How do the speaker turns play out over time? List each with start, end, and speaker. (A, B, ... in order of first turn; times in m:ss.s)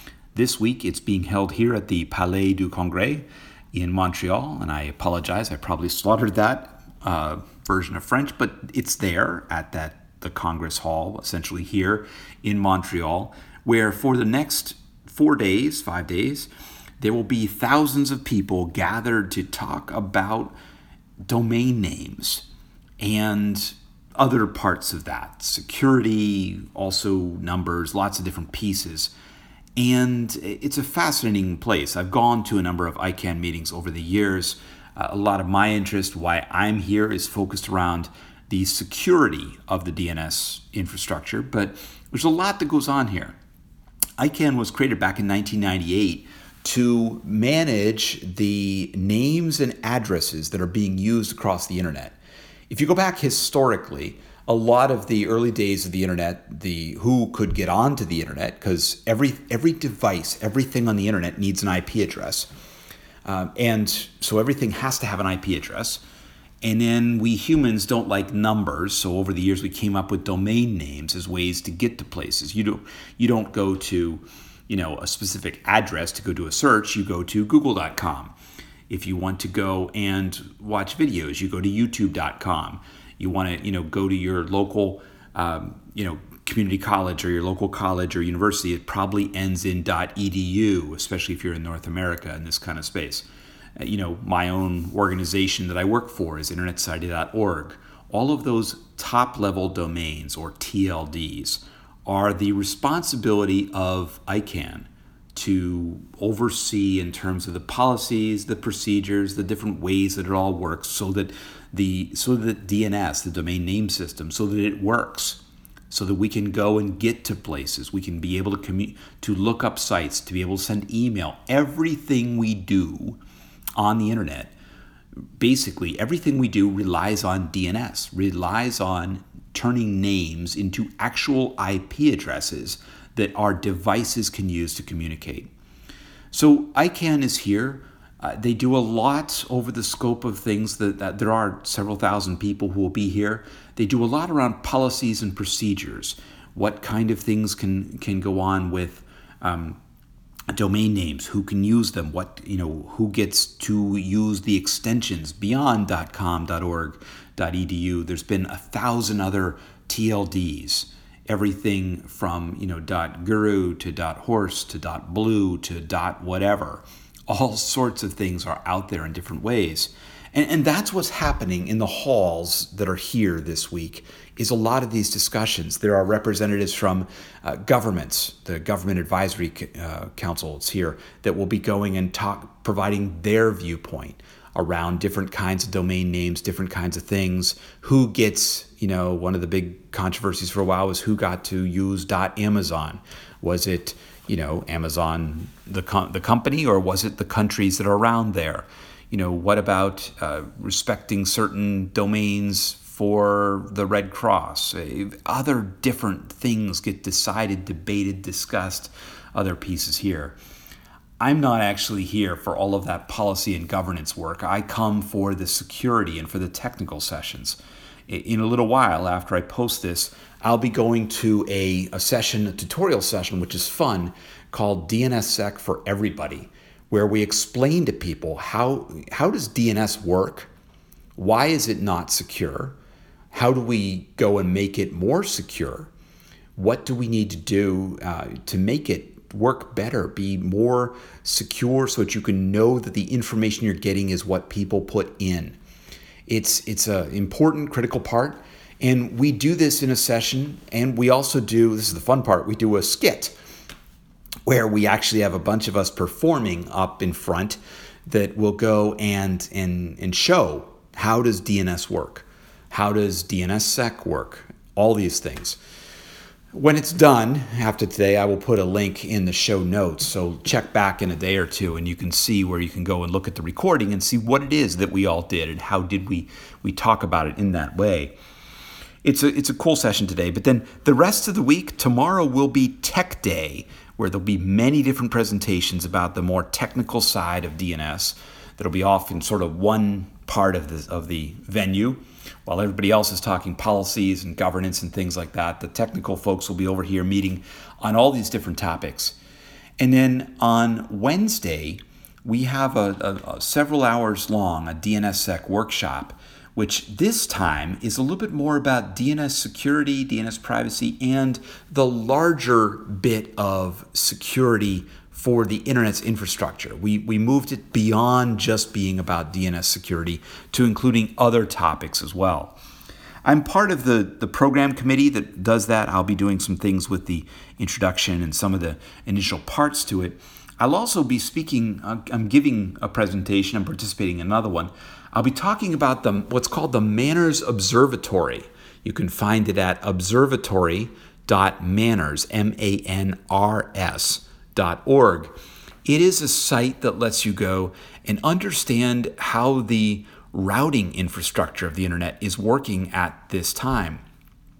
0:00.3-0:16.5 A
0:17.0-0:20.5 A
0:21.3-0:22.4 A
0:23.0-0:29.1 A
0:29.8-0:43.3 A
0:44.2-0:52.1 A
0:52.7-1:02.5 A
1:03.2-1:06.0 A
1:06.6-1:18.3 A
1:18.9-1:33.2 A
1:33.8-1:55.4 A
1:55.9-2:03.2 A
2:03.8-2:04.5 A
2:05.4-2:15.5 A
2:16.3-2:29.8 A
2:30.5-3:30.3 A
3:31.2-3:50.5 A
3:51.2-3:52.7 A
3:53.3-3:55.9 A
3:56.6-4:05.6 A
4:06.3-4:13.3 A
4:14.4-4:25.6 A
4:26.5-4:38.1 A
4:39.0-4:59.1 A
4:59.8-5:22.6 A
5:23.2-5:45.3 A
5:45.8-5:54.0 A